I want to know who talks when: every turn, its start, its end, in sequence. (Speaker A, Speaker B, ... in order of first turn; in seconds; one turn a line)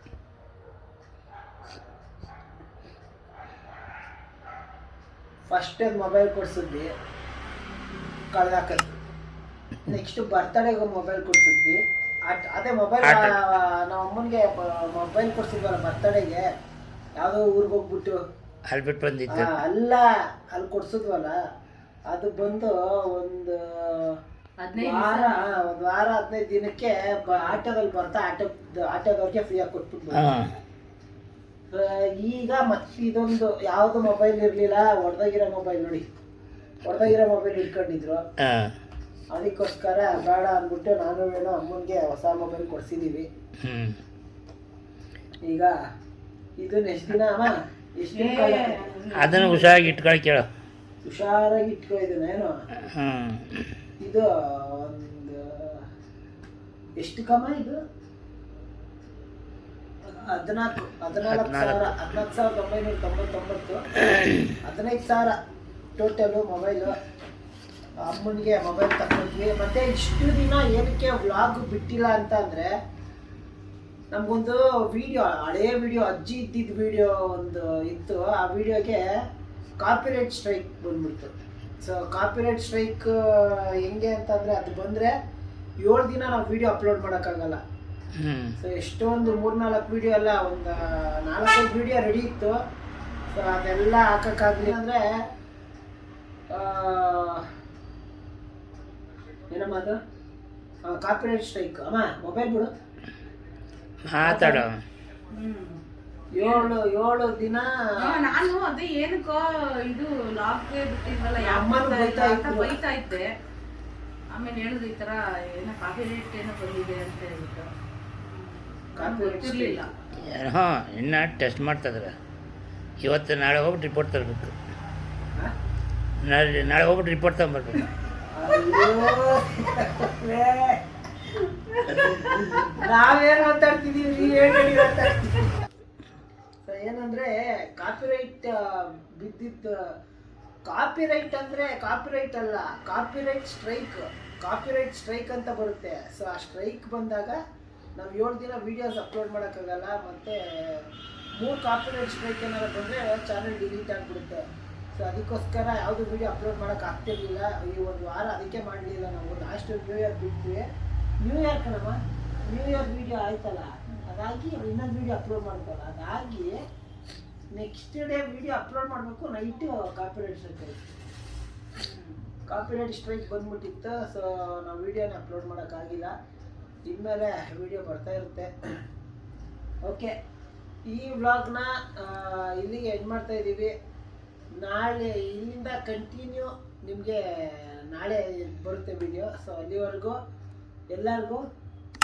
Speaker A: 5.5-6.9
Speaker A: 8.3-8.9
Speaker A: 9.8-16.5
Speaker B: 13.0-13.3
Speaker A: 17.2-18.2
Speaker B: 18.7-19.6
Speaker A: 19.3-21.4
Speaker A: 22.1-24.2
Speaker C: 24.6-25.6
Speaker A: 24.8-30.5
Speaker B: 30.1-30.5
Speaker A: 31.7-36.0
Speaker A: 36.8-38.2
Speaker B: 38.4-38.7
Speaker A: 39.3-43.3
Speaker B: 43.6-44.0
Speaker A: 45.5-45.7
Speaker A: 46.6-49.9
Speaker C: 48.1-49.7
Speaker B: 49.2-50.5
Speaker A: 51.0-52.5
Speaker B: 52.9-53.4
Speaker A: 54.0-55.9
Speaker A: 57.0-57.8
Speaker A: 60.0-63.8
Speaker B: 61.2-62.0
Speaker A: 64.6-65.4
Speaker A: 66.0-67.0
Speaker A: 68.0-72.7
Speaker A: 74.1-79.0
Speaker A: 79.8-85.1
Speaker A: 85.8-87.6
Speaker B: 88.2-88.6
Speaker A: 88.6-92.6
Speaker A: 93.3-95.1
Speaker A: 96.5-97.5
Speaker A: 99.5-100.0
Speaker A: 100.8-102.7
Speaker B: 104.1-104.8
Speaker A: 104.2-104.7
Speaker C: 105.3-105.8
Speaker A: 106.4-108.3
Speaker C: 106.4-106.7
Speaker C: 108.0-113.3
Speaker A: 111.4-112.8
Speaker C: 114.3-117.7
Speaker C: 118.3-119.9
Speaker A: 119.0-119.9
Speaker B: 120.2-122.2
Speaker B: 123.0-124.5
Speaker B: 126.2-127.9
Speaker A: 128.3-130.8
Speaker A: 132.0-135.5
Speaker A: 136.7-139.8
Speaker A: 140.7-147.4
Speaker A: 148.0-160.6
Speaker A: 161.2-166.6
Speaker A: 167.5-170.8
Speaker C: 171.8-172.2
Speaker A: 172.5-176.1
Speaker A: 176.9-178.5
Speaker A: 179.8-180.1
Speaker A: 180.9-183.7
Speaker A: 184.6-190.2
Speaker A: 190.9-191.4